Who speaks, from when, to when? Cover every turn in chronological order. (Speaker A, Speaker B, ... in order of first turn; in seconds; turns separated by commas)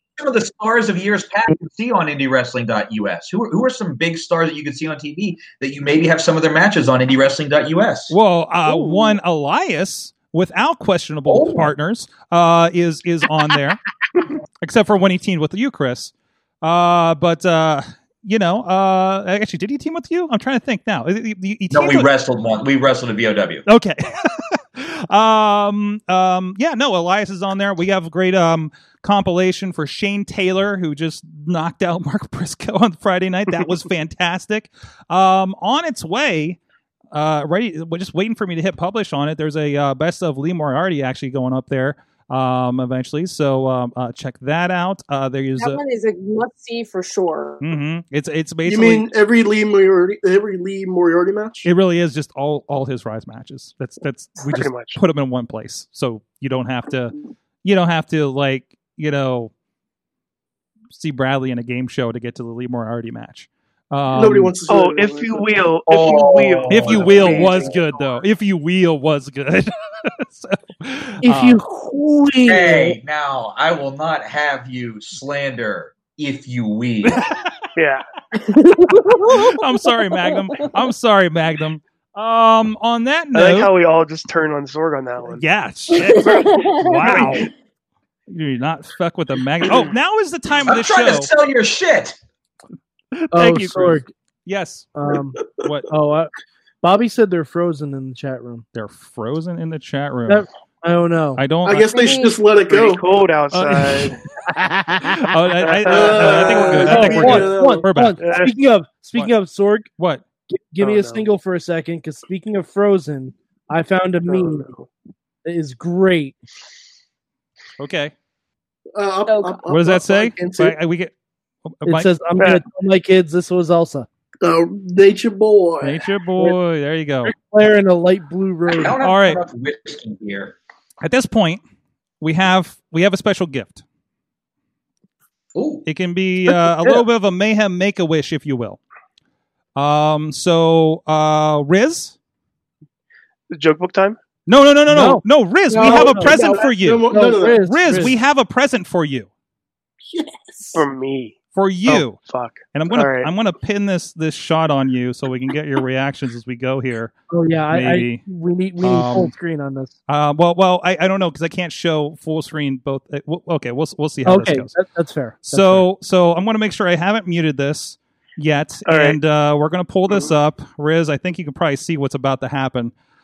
Speaker A: 0.2-8.2, Speaker B: 8.1-13.8, Speaker C: 8.7-9.1, Speaker A: 11.3-11.7, Speaker B: 14.6-22.1, Speaker A: 21.7-23.6, Speaker B: 23.6-36.6, Speaker B: 37.1-45.8, Speaker D: 45.6-47.6, Speaker B: 47.6-49.1, Speaker E: 48.6-51.7, Speaker B: 51.6-59.5, Speaker F: 54.4-55.0, Speaker B: 60.9-64.5, Speaker E: 64.1-65.5, Speaker F: 64.7-67.7, Speaker A: 65.9-67.7, Speaker B: 66.7-71.6, Speaker E: 67.2-67.6, Speaker C: 71.2-73.0, Speaker A: 72.5-77.2, Speaker F: 77.8-78.0, Speaker D: 78.5-79.5, Speaker B: 79.2-83.7, Speaker F: 83.3-85.4, Speaker B: 85.3-87.5, Speaker D: 85.9-87.3, Speaker B: 88.3-91.3, Speaker A: 90.7-92.2, Speaker B: 93.2-94.9, Speaker C: 93.3-94.1, Speaker C: 95.0-96.3, Speaker B: 95.6-95.9, Speaker C: 96.8-98.6, Speaker B: 98.7-100.5, Speaker C: 100.3-101.4, Speaker B: 101.4-101.9, Speaker E: 101.6-103.0, Speaker D: 101.8-102.4, Speaker F: 102.7-104.2, Speaker B: 103.5-104.2, Speaker C: 104.5-105.2, Speaker B: 105.0-108.2, Speaker F: 105.6-107.2, Speaker E: 105.9-107.9, Speaker C: 106.7-109.9, Speaker F: 108.2-108.5, Speaker B: 110.0-110.2, Speaker C: 110.5-114.7, Speaker F: 110.8-111.3, Speaker F: 114.3-114.9, Speaker C: 115.5-116.4, Speaker B: 117.8-118.1, Speaker E: 119.0-120.8, Speaker D: 119.3-119.6, Speaker B: 119.7-121.1, Speaker B: 121.7-122.1, Speaker C: 121.8-124.1, Speaker E: 124.4-126.0, Speaker B: 125.8-127.3, Speaker C: 127.2-128.9, Speaker A: 128.7-130.6, Speaker B: 129.0-129.4, Speaker B: 131.0-131.6, Speaker B: 132.2-133.8, Speaker A: 135.6-135.8, Speaker B: 135.9-138.8, Speaker C: 136.5-137.0, Speaker B: 139.8-142.1, Speaker F: 143.5-144.2, Speaker B: 144.5-147.1, Speaker C: 144.9-146.5, Speaker E: 145.7-147.6, Speaker C: 147.1-148.2, Speaker B: 147.7-149.3, Speaker E: 150.1-150.8, Speaker F: 150.7-151.3, Speaker B: 151.5-152.2, Speaker F: 151.9-153.3, Speaker B: 152.7-157.1, Speaker C: 157.3-159.9, Speaker B: 157.7-158.2, Speaker B: 158.8-159.3, Speaker B: 160.1-164.7, Speaker C: 164.2-165.9, Speaker B: 165.5-172.9, Speaker F: 168.9-169.2